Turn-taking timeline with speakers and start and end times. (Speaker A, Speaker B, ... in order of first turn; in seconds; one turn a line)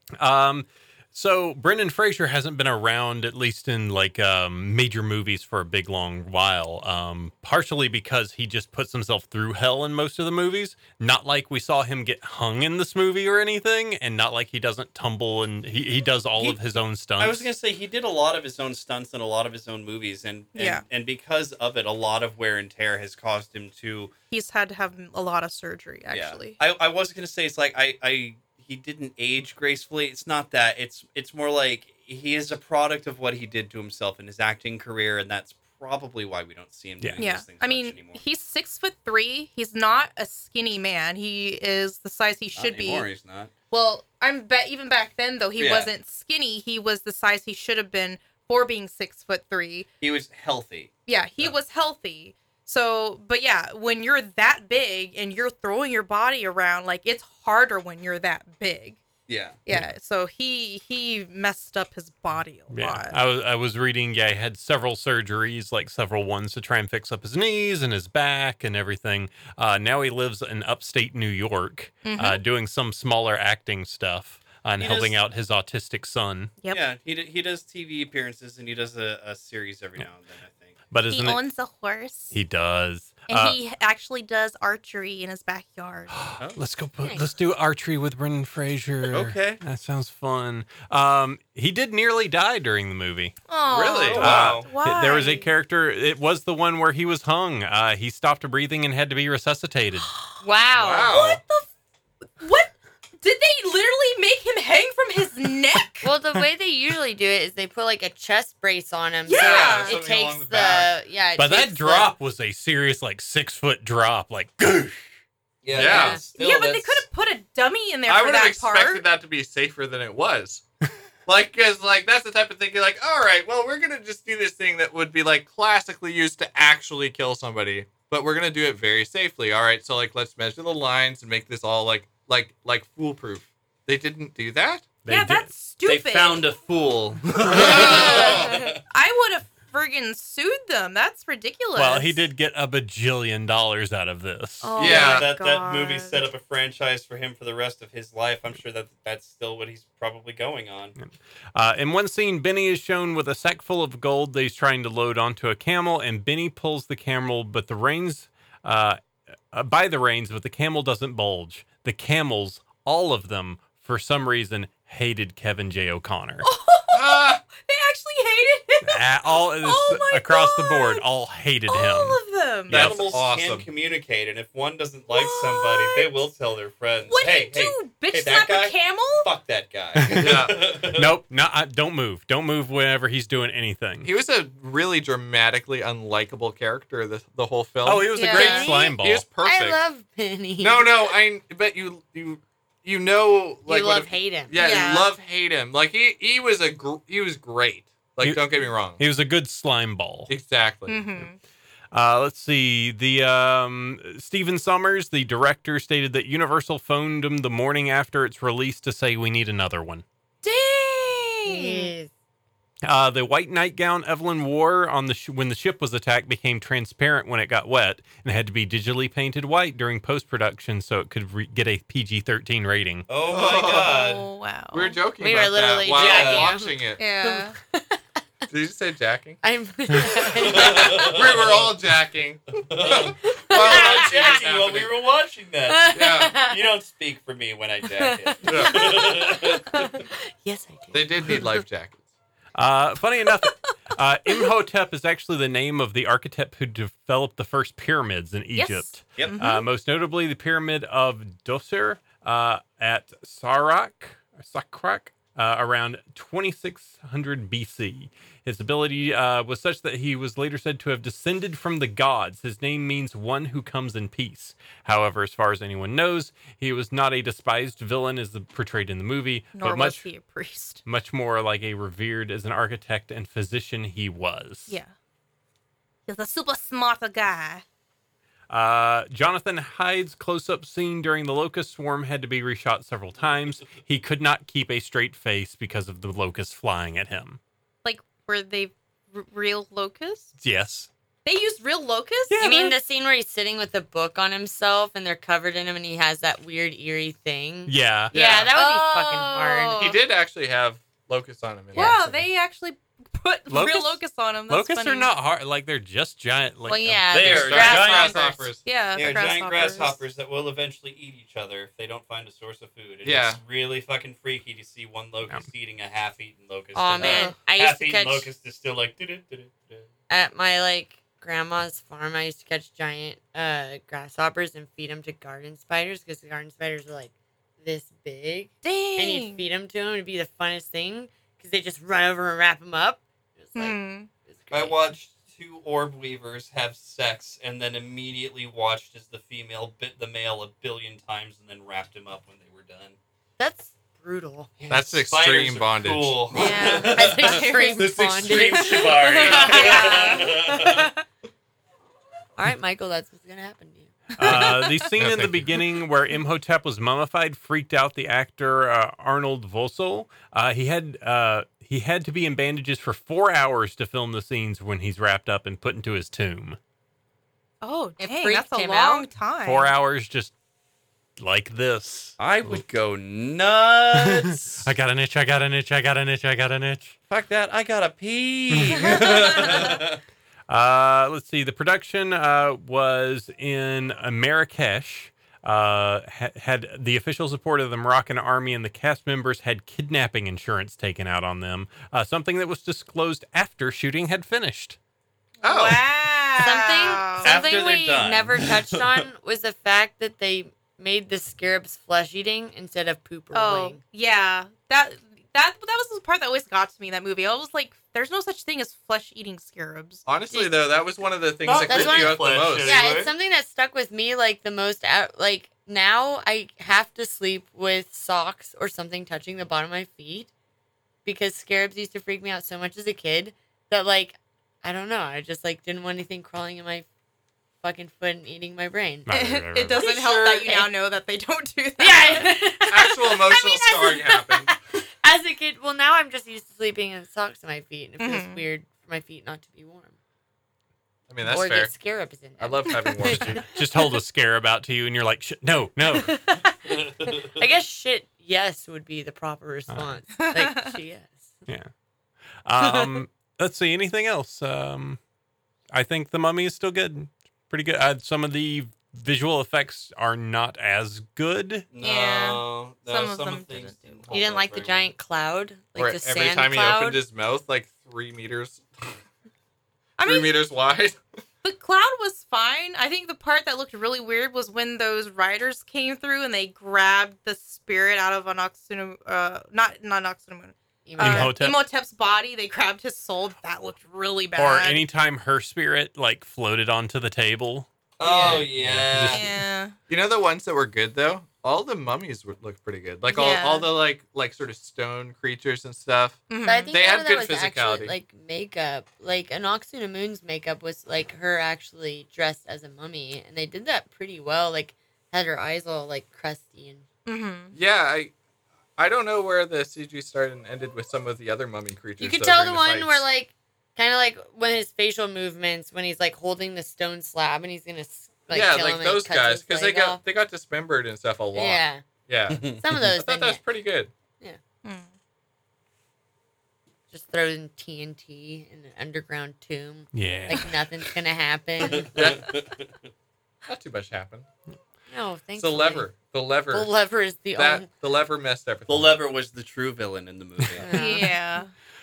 Speaker A: 0.2-17.5
Speaker B: 17.2-24.1
Speaker C: 20.5-20.8
Speaker C: 24.3-26.6
Speaker B: 26.1-38.2
Speaker C: 37.2-43.0
Speaker B: 42.5-43.5
Speaker C: 43.7-49.9
Speaker B: 45.6-45.9
Speaker B: 50.0-51.5
Speaker C: 51.1-59.0
Speaker B: 59.3-59.6
Speaker C: 59.6-63.2
Speaker A: 62.7-76.5
Speaker C: 72.0-72.4
Speaker B: 74.8-75.2
Speaker B: 76.7-80.7
Speaker A: 80.9-81.4
Speaker C: 81.1-82.3
Speaker A: 82.3-83.6
Speaker C: 83.3-86.1
Speaker A: 86.1-93.3
Speaker D: 87.0-87.3
Speaker B: 89.1-89.6
Speaker C: 93.5-95.5
Speaker E: 93.7-94.6
Speaker B: 94.0-94.7
Speaker A: 94.2-100.1
Speaker D: 100.4-101.2
Speaker E: 100.7-101.4
Speaker C: 101.1-101.7
Speaker C: 102.4-106.1
Speaker D: 106.0-112.1
Speaker C: 109.2-110.0
Speaker E: 109.3-110.9
Speaker A: 111.4-115.0
Speaker B: 115.6-117.0
Speaker E: 115.7-116.2
Speaker D: 115.8-116.2
Speaker C: 116.3-119.0
Speaker E: 118.1-120.6
Speaker E: 121.2-134.9
Speaker A: 135.0-135.5
Speaker C: 135.1-136.4
Speaker B: 135.8-138.8
Speaker A: 137.3-137.8
Speaker E: 137.5-138.4
Speaker C: 137.6-142.2
Speaker D: 138.0-138.4
Speaker A: 141.8-144.8
Speaker D: 144.6-146.2
Speaker C: 144.6-145.5
Speaker E: 144.8-145.2
Speaker B: 144.8-150.9
Speaker A: 151.0-159.0
Speaker A: 159.5-166.5
Speaker C: 166.4-171.0
Speaker E: 166.9-167.4
Speaker A: 168.8-172.2
Speaker C: 171.7-172.9
Speaker A: 172.7-173.1
Speaker E: 172.7-173.7
Speaker B: 172.7-181.1
Speaker C: 175.1-176.1
Speaker C: 177.1-179.3
Speaker A: 180.0-180.4
Speaker E: 180.1-180.6
Speaker A: 180.9-184.1
Speaker E: 184.0-189.8
Speaker A: 187.8-189.2
Speaker D: 188.1-191.1
Speaker E: 190.6-199.0
Speaker D: 193.7-194.6
Speaker C: 194.6-195.1
Speaker A: 198.2-200.3
Speaker E: 200.3-201.1
Speaker C: 200.9-201.3
Speaker A: 201.9-210.0
Speaker C: 210.4-211.9
Speaker D: 211.4-212.1
Speaker A: 212.8-223.1
Speaker B: 223.1-224.2
Speaker E: 223.3-224.0
Speaker C: 223.7-225.0
Speaker E: 224.7-227.0
Speaker D: 225.2-228.0
Speaker B: 225.9-226.5
Speaker C: 227.0-227.6
Speaker E: 228.5-229.4
Speaker D: 229.4-231.2
Speaker E: 230.2-234.9
Speaker B: 230.4-231.7
Speaker B: 232.7-240.0
Speaker D: 233.3-234.4
Speaker D: 235.7-236.6
Speaker E: 235.9-236.4
Speaker D: 238.0-241.5
Speaker E: 238.4-239.0
Speaker E: 240.9-242.0
Speaker A: 242.6-270.1
Speaker C: 248.5-249.7
Speaker C: 269.5-270.8
Speaker A: 270.9-274.8
Speaker C: 274.7-274.9
Speaker C: 276.1-277.6
Speaker A: 278.5-287.4
Speaker C: 287.8-290.3
Speaker A: 290.4-290.9
Speaker C: 291.2-292.7
Speaker A: 292.3-292.7
Speaker D: 292.4-300.0
Speaker A: 297.6-298.1
Speaker E: 298.1-298.5
Speaker C: 298.5-300.0
Speaker E: 299.8-302.1
Speaker C: 301.7-305.1
Speaker A: 303.5-307.3
Speaker D: 306.6-308.5
Speaker B: 307.1-308.4
Speaker E: 307.2-308.6
Speaker C: 308.6-310.0
Speaker B: 308.9-319.9
Speaker E: 313.0-313.4
Speaker D: 316.7-318.3
Speaker E: 317.0-317.3
Speaker C: 317.0-317.3
Speaker D: 320.1-334.8
Speaker C: 328.6-329.4
Speaker C: 333.6-334.1
Speaker B: 334.5-342.9
Speaker D: 343.4-344.5
Speaker B: 344.6-350.9
Speaker E: 344.7-346.2
Speaker C: 346.3-350.3
Speaker D: 346.4-350.9
Speaker D: 352.4-353.9
Speaker A: 354.2-366.6
Speaker C: 354.2-354.8
Speaker E: 354.2-355.6
Speaker C: 367.6-369.7
Speaker D: 368.0-369.1
Speaker A: 369.4-370.3
Speaker A: 371.2-372.6
Speaker B: 372.2-374.7
Speaker A: 373.9-376.9
Speaker B: 377.1-380.0
Speaker A: 378.5-379.8
Speaker A: 380.5-394.8
Speaker C: 395.4-397.4
Speaker E: 395.4-395.8
Speaker D: 396.4-403.8
Speaker B: 397.2-399.0
Speaker C: 403.3-410.0
Speaker E: 410.1-412.9
Speaker D: 410.3-410.6
Speaker B: 411.4-413.1
Speaker D: 411.6-420.3
Speaker D: 421.0-426.9
Speaker D: 427.6-429.1
Speaker A: 429.1-429.8
Speaker C: 429.1-432.4
Speaker D: 429.7-430.7
Speaker D: 431.8-439.9
Speaker E: 432.7-434.5
Speaker C: 438.0-438.4
Speaker E: 441.1-441.7
Speaker D: 441.2-443.9
Speaker E: 442.4-443.5
Speaker A: 443.4-446.2
Speaker D: 445.9-451.3
Speaker B: 446.7-447.4
Speaker A: 449.7-450.0
Speaker C: 450.2-450.7
Speaker A: 452.4-455.0
Speaker D: 452.6-453.0
Speaker A: 455.7-461.7
Speaker B: 461.7-464.9
Speaker C: 461.8-464.1
Speaker D: 464.1-467.0
Speaker E: 465.8-469.0
Speaker C: 470.0-470.3
Speaker E: 470.0-471.0
Speaker C: 471.4-484.8
Speaker D: 480.9-481.4
Speaker A: 481.0-481.6
Speaker A: 484.4-489.3
Speaker B: 488.0-489.3
Speaker C: 489.1-489.8
Speaker E: 489.9-497.9
Speaker C: 493.1-493.7
Speaker C: 496.3-496.7
Speaker D: 496.4-506.8
Speaker C: 507.1-507.5
Speaker E: 507.5-508.1
Speaker E: 508.8-513.0
Speaker D: 512.0-520.0
Speaker E: 518.3-523.9
Speaker D: 521.3-521.8
Speaker B: 522.3-522.6
Speaker D: 522.5-523.4
Speaker C: 524.6-524.9
Speaker D: 526.9-531.9
Speaker A: 529.9-530.6
Speaker B: 531.6-532.7
Speaker E: 531.9-532.3
Speaker E: 533.4-534.2
Speaker D: 534.9-535.9
Speaker E: 535.4-536.7
Speaker D: 536.5-537.7
Speaker E: 537.3-539.0
Speaker B: 538.7-540.8
Speaker D: 540.6-541.1
Speaker C: 540.7-541.5